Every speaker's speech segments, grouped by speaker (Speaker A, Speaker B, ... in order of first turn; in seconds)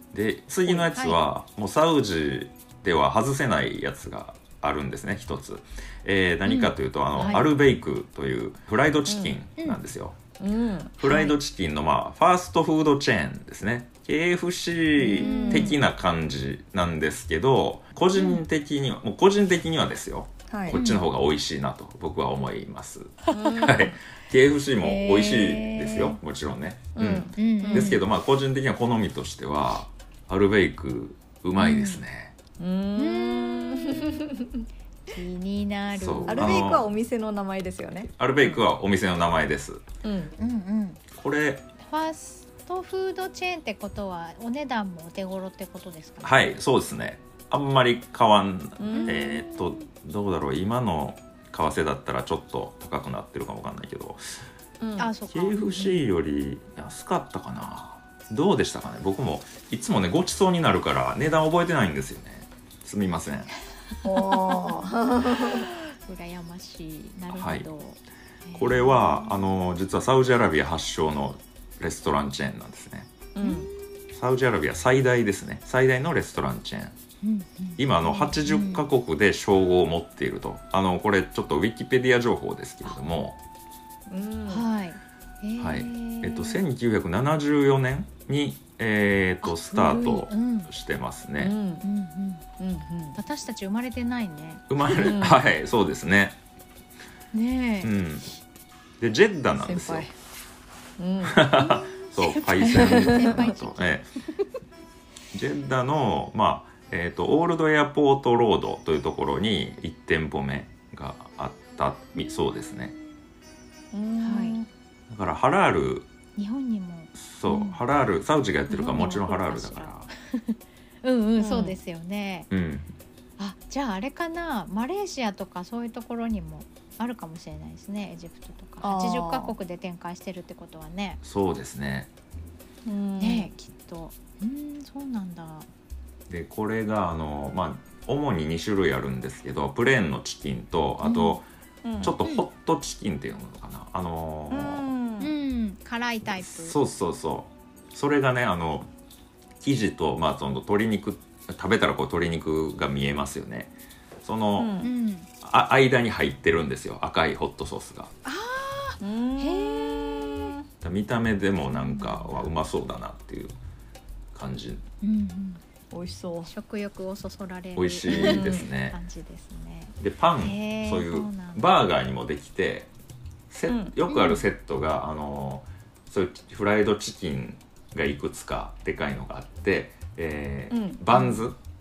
Speaker A: 0.1-10.2, 11.0-32.4, 35.9-36.9, 38.2-39.8, 41.1-41.7, 46.2-54.4, 55.3-63.5, 67.3-67.7, 68.5-73.1, 74.1-77.0, 77.8-83.4, 85.6-91.6, 94.7-96.4, 97.8-98.3, 99.0-100.1, 101.2-104.1, 105.3-113.0, 115.1-116.1, 117.2-120.1, 122.5-122.9, 131.2-132.1, 136.3-141.4, 142.0-144.9, 146.2-148.9, 149.6-153.7, 154.2-154.7, 155.4-158.1, 160.8-163.6, 164.3-164.8, 167.8-169.0, 170.0-172.9, 173.5-181.6
Speaker B: 0.7-1.2, 7.2-7.5, 11.0-11.3, 15.2-15.8, 20.7-21.1, 23.4-23.7, 24.8-26.2, 27.3-28.0, 31.6-32.0, 33.0-34.3, 35.1-36.6, 40.4-41.0, 41.8-46.5, 48.9-49.4, 55.0-56.0, 64.2-69.3, 73.4-74.0, 77.2-78.9, 84.5-86.6, 89.4-90.7, 91.8-92.5, 93.2-95.0, 97.3-97.9, 101.5-104.0, 114.2-114.6, 116.4-117.8, 118.7-122.5, 123.4-131.2, 133.2-135.7, 141.0-141.4, 145.2-146.8, 154.8-155.3, 158.2-160.6, 161.7-162.5, 165.0-165.6, 166.5-171.7, 174.1-174.4, 181.1-181.5
Speaker C: 9.1-9.4, 10.4-11.0, 15.1-15.8, 20.5-20.8, 23.3-23.9, 27.0-28.0, 32.6-34.6, 36.3-38.6, 40.0-40.3, 48.8-49.5, 54.8-55.1, 64.0-65.7, 73.3-73.7, 84.1-84.7, 91.4-91.8, 92.6-93.2, 95.0-95.4, 99.6-100.1, 101.0-101.5, 102.7-103.5, 113.9-114.7, 121.4-121.8, 128.8-129.6, 132.9-133.5, 141.8-142.2, 144.5-145.3, 154.6-154.9, 159.0-160.6, 165.9-166.5, 168.1-168.7, 173.7-173.9, 180.7-181.0